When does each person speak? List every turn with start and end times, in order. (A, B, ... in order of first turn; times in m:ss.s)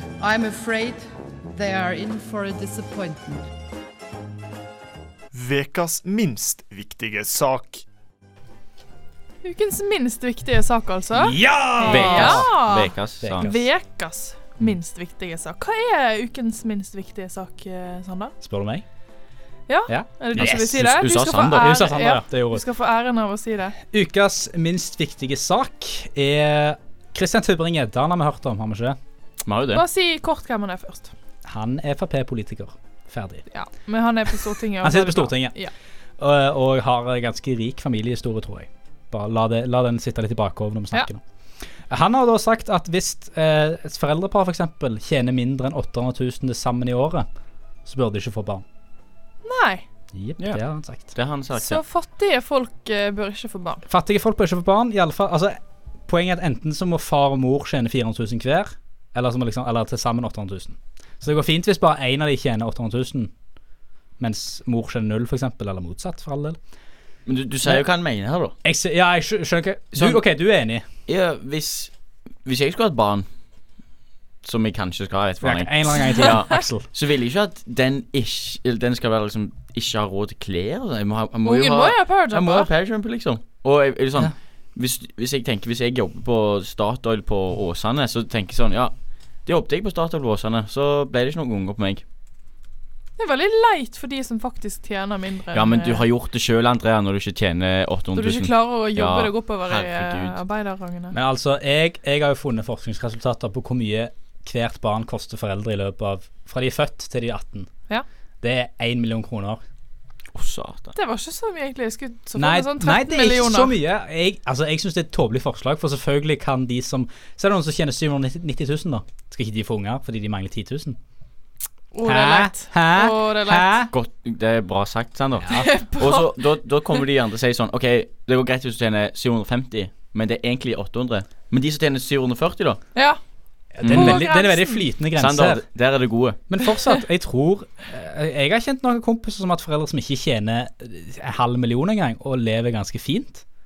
0:00.2-0:03.4 A
0:05.3-0:07.8 B
0:09.4-0:18.3 C
0:11.2-0:12.5 D
0:11.9-0:13.5 E
0:13.2-0:13.7 D
0:18.4-0:18.8 D
0:19.7-0:23.8 C
0:19.9-0:20.8 D
0:20.3-0:21.8 E
0:21.6-0:22.6 D
0:23.9-0:29.0 D
0:29.4-0:29.8 E
0:29.7-0:31.1 C
0:31.4-0:33.4 D
0:33.5-0:35.7 C
0:34.8-0:35.5 D
0:36.2-0:41.2 D
0:41.9-0:47.2 D
0:47.8-0:48.6 D
0:49.4-0:49.8 C
0:50.1-0:51.1 D
0:51.1-0:51.8 E
0:51.5-0:53.8 C
0:53.9-1:03.3 D
1:04.2-1:06.6 D
1:07.2-1:08.5 E
1:08.6-1:10.8 D
1:10.0-1:10.2 E
1:11.1-1:11.9 E
1:12.4-1:13.3 E
1:14.4-1:32.0 E
1:15.4-1:16.9 D
1:21.4-1:22.7 C
1:33.2-1:36.0 C
1:35.5-1:40.4 E
1:38.1-1:41.1 C
1:41.1-1:47.7 D
1:48.4-1:49.6 D
1:50.3-1:50.9 E
1:50.9-1:53.8 C
1:52.4-2:01.0 D
2:01.9-2:03.9 C
2:02.0-2:03.9 D
2:03.9-2:12.8 E
2:05.5-2:06.4 C
2:12.9-2:13.2 C
2:13.8-2:15.6 D
2:13.8-2:14.2 E
2:13.9-2:14.8 C
2:15.2-2:16.4 E
2:16.5-2:23.4 D